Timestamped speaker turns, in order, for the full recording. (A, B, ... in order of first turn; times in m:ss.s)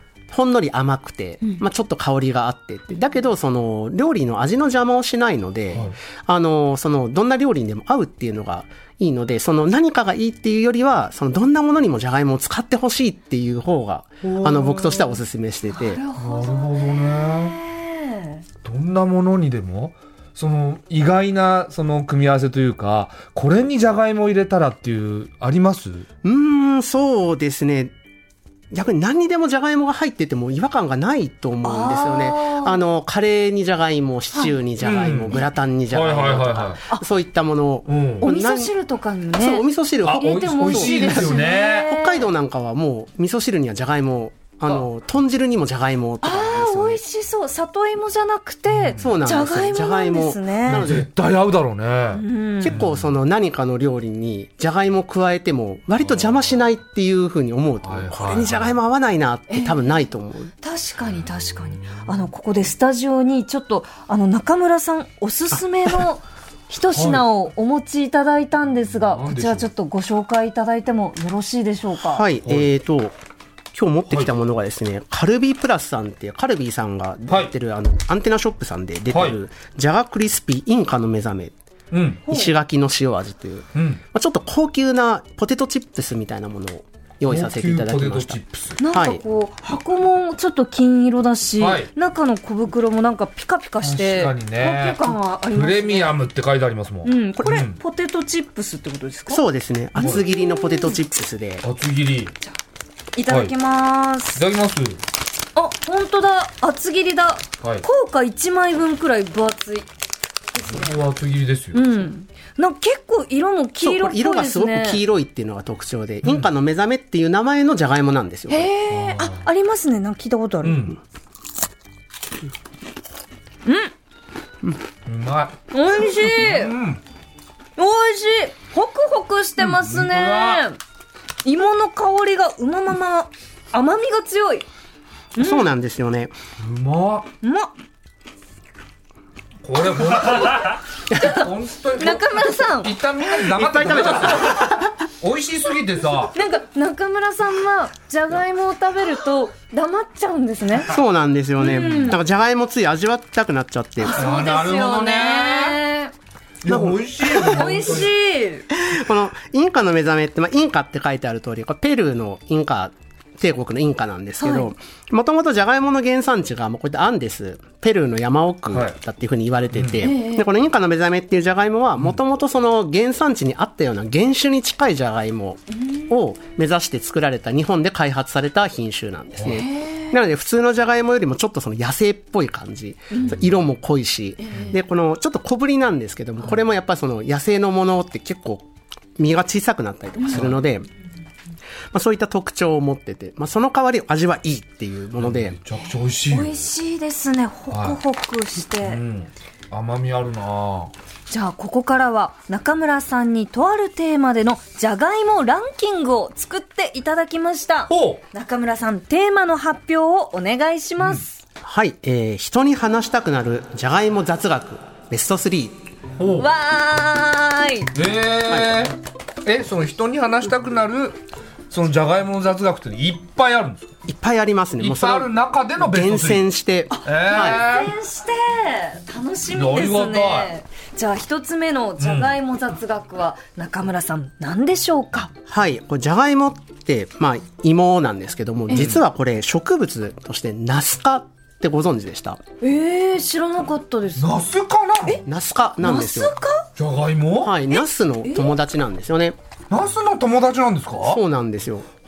0:00.3-0:16.0 A
0:14.2-0:15.2 B
0:15.7-0:18.4 C
0:16.2-0:17.6 B
0:18.6-0:26.1 B
0:26.2-0:27.9 A
0:28.7-0:38.7 A
0:31.6-0:32.8 C
0:34.8-0:36.8 B
0:37.9-0:38.3 B
0:38.2-0:42.3 C
0:39.4-0:47.0 A
0:40.0-0:41.9 B
0:46.2-0:50.9 C
0:48.7-0:49.1 B
0:49.0-0:51.1 A
0:50.7-0:53.0 B
0:52.1-0:52.8 C
0:52.6-1:00.5 A
0:57.8-0:58.8 B
0:59.5-0:59.8 C
1:00.6-1:12.2 C
1:06.9-1:07.2 B
1:09.0-1:09.7 B
1:12.0-1:13.1 A
1:12.4-1:12.7 B
1:13.7-1:21.5 A
1:19.1-1:19.4 B
1:21.9-1:22.2 B
1:22.2-1:29.2 A
1:22.3-1:22.5 C
1:23.7-1:24.0 B
1:27.2-1:28.8 B
1:28.8-1:36.2 C
1:31.6-1:31.9 B
1:33.8-1:37.8 B
1:37.0-1:39.4 C
1:39.3-1:41.6 A
1:40.0-1:41.0 C
1:40.0-1:40.2 B
1:41.6-1:42.3 B
1:43.2-1:44.4 C
1:43.3-1:43.5 B
1:44.3-1:45.0 B
1:45.5-1:49.9 C
1:50.5-1:51.0 C
1:50.6-1:51.8 B
1:51.7-1:55.0 C
1:53.8-1:58.7 A
1:58.5-2:00.9 C
1:58.9-1:59.4 B
2:00.6-2:01.0 B
2:03.6-2:03.9 C
2:05.0-2:07.0 B
2:05.7-2:06.7 C
2:07.8-2:10.8 C
2:09.6-2:10.6 B
2:11.4-2:14.6 C
2:15.4-2:15.7 C
2:15.4-2:16.3 A
2:16.6-2:17.3 B
2:17.4-2:17.7 C
2:19.6-2:26.3 B
2:21.1-2:22.9 C
2:23.4-2:24.9 A
2:26.3-2:30.9 C
2:30.8-2:34.2 A
2:31.6-2:32.2 C
2:31.7-2:32.1 B
2:34.0-2:36.1 C
2:34.1-2:35.8 B
2:36.6-2:38.1 B
2:36.6-2:38.0 A
2:37.3-2:38.7 C
2:38.7-3:10.9 A
2:44.4-2:44.7 C
2:49.7-2:50.1 B
2:50.0-2:50.5 C
2:55.8-2:56.1 C
2:59.5-3:00.1 C
3:03.1-3:03.4 C
3:04.4-3:04.8 C
3:10.3-3:10.6 B
3:11.9-3:15.6 A
3:15.2-3:16.6 B
3:15.7-3:19.0 C
3:17.7-3:18.0 B
3:18.8-3:20.9 B
3:21.3-3:31.4 C
3:27.9-3:28.2 B
3:31.6-3:35.8 A
3:36.2-3:36.5 B
3:36.4-3:37.9 C
3:37.9-3:41.2 B
3:38.5-3:38.8 A
3:41.7-3:43.9 B
3:44.1-3:47.6 A
3:44.8-3:46.4 B
3:46.9-3:55.3 C
3:47.0-3:47.9 B
3:49.5-3:50.5 B
3:52.0-3:52.3 B
3:55.5-4:02.4 A
3:58.7-3:59.0 B
4:02.6-4:04.3 C
4:04.2-4:05.2 B
4:05.2-4:06.3 A
4:05.8-4:06.7 C
4:06.8-4:07.5 B
4:07.4-4:09.4 A
4:07.7-4:08.5 C
4:09.7-4:11.2 B
4:11.0-4:11.9 A